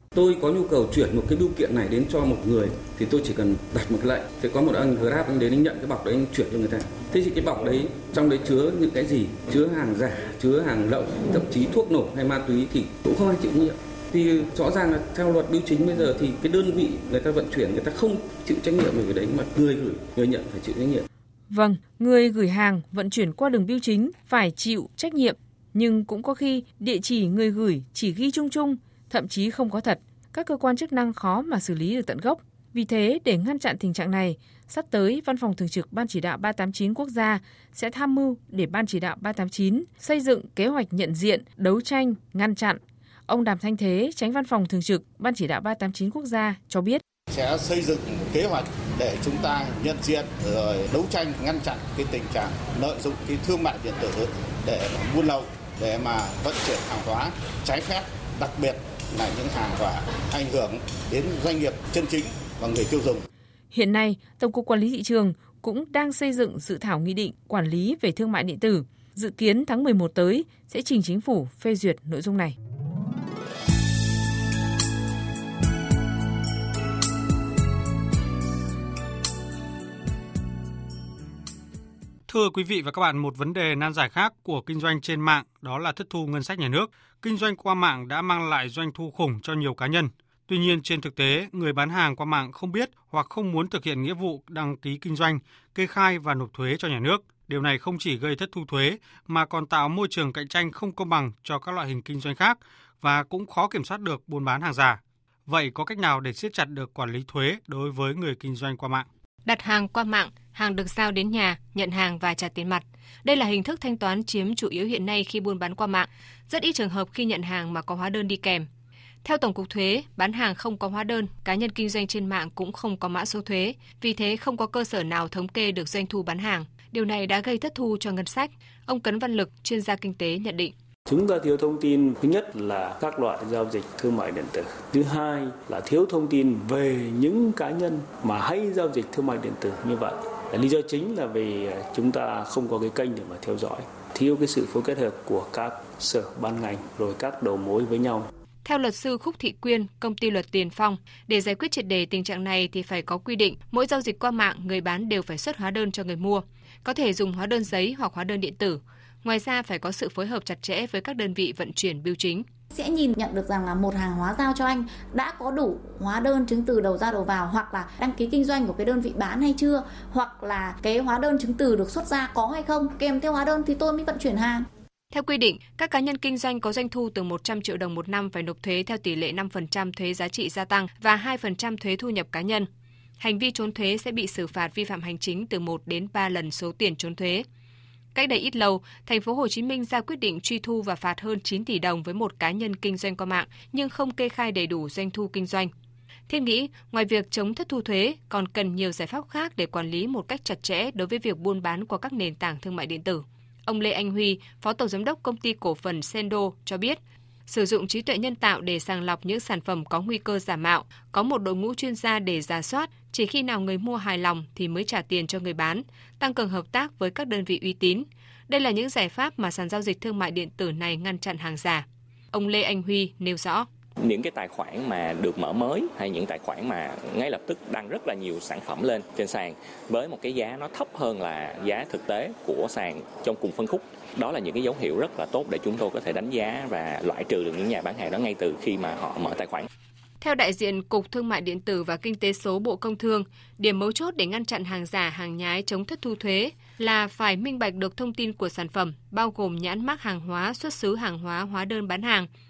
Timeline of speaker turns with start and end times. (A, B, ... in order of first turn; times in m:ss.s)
0:00.1-0:21.0 A
0:21.5-0:47.0 B
0:47.3-1:03.3 C
1:03.7-1:12.5 B
1:22.3-1:49.1 D
1:49.4-1:58.7 E
1:59.2-2:10.7 E
2:11.1-2:28.3 F
2:28.6-2:42.4 E
2:42.7-2:54.7 G
2:55.1-3:02.7 E
3:03.2-3:07.4 E
3:08.1-3:15.7 E
3:16.3-3:43.7 E
3:44.0-3:59.7 H
4:00.2-4:12.3 E